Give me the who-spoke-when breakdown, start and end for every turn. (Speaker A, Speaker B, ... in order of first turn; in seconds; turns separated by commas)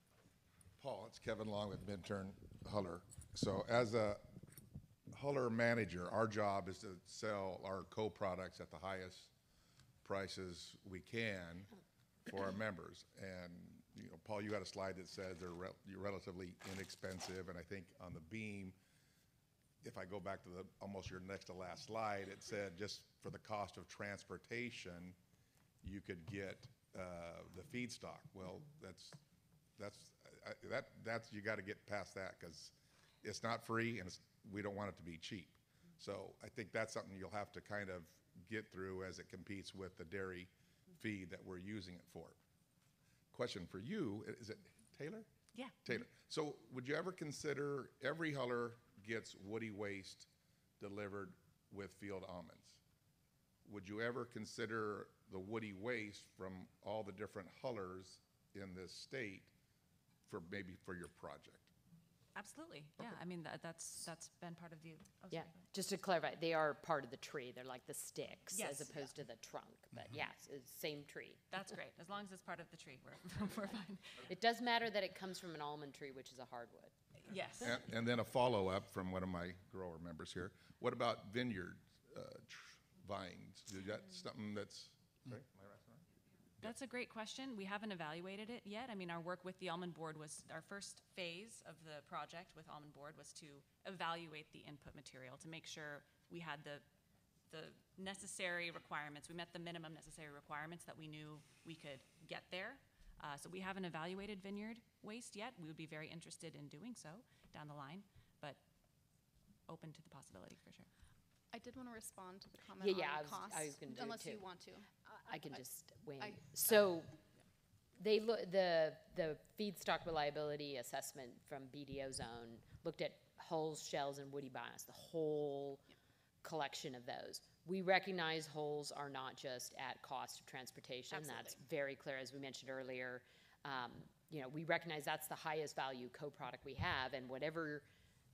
Speaker A: 0.8-4.3, Speaker A: 5.1-9.3, Speaker A: 10.0-11.7, Speaker A: 12.3-18.8, Speaker A: 19.8-25.2, Speaker A: 25.8-29.2, Speaker A: 29.8-42.4, Speaker A: 43.3-45.3, Speaker A: 45.8-50.3, Speaker A: 50.8-52.8, Speaker A: 53.6-59.5, Speaker A: 60.3-61.7, Speaker B: 62.4-65.6, Speaker C: 65.3-71.4, Speaker B: 68.5-69.1, Speaker B: 71.5-74.2, Speaker C: 74.3-76.9, Speaker B: 77.3-77.8, Speaker A: 77.6-86.1, Speaker B: 86.6-96.8, Speaker B: 97.5-108.6, Speaker B: 109.7-110.9, Speaker D: 111.5-114.9, Speaker C: 112.8-114.4, Speaker C: 115.1-117.2, Speaker D: 116.2-116.5, Speaker C: 118.0-125.8, Speaker C: 126.4-137.9, Speaker D: 131.1-131.6